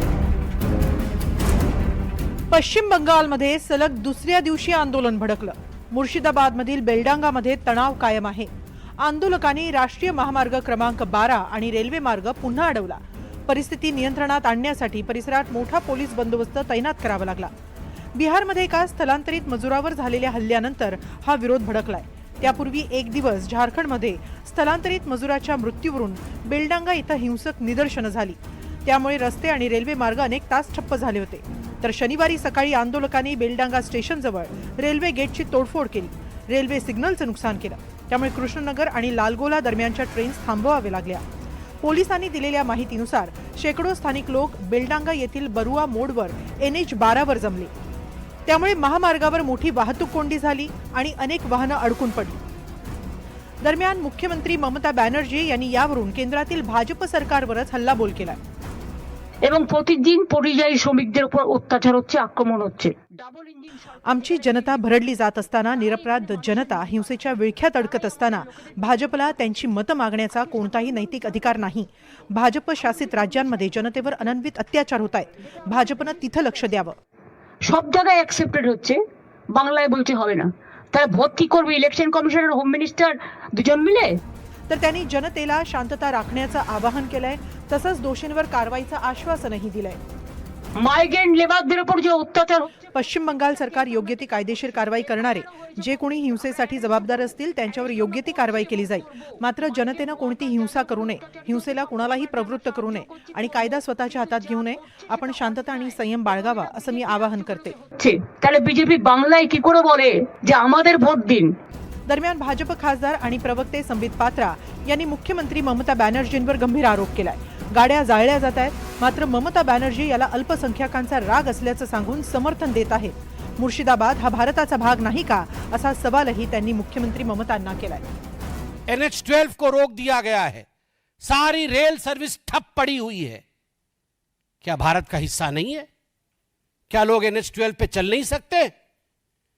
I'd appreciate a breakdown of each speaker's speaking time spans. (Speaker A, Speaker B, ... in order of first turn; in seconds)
Speaker A: 2.5-17.5, 18.1-41.2, 41.8-47.7, 48.5-52.4, 53.6-58.4, 64.1-77.0, 84.7-90.0, 92.9-107.8, 112.1-128.1
Speaker B: 59.4-63.7, 77.6-79.0, 79.5-84.2, 90.8-92.7, 108.0-111.5
Speaker C: 128.9-130.7, 131.2-133.4, 134.6-135.9, 136.9-138.7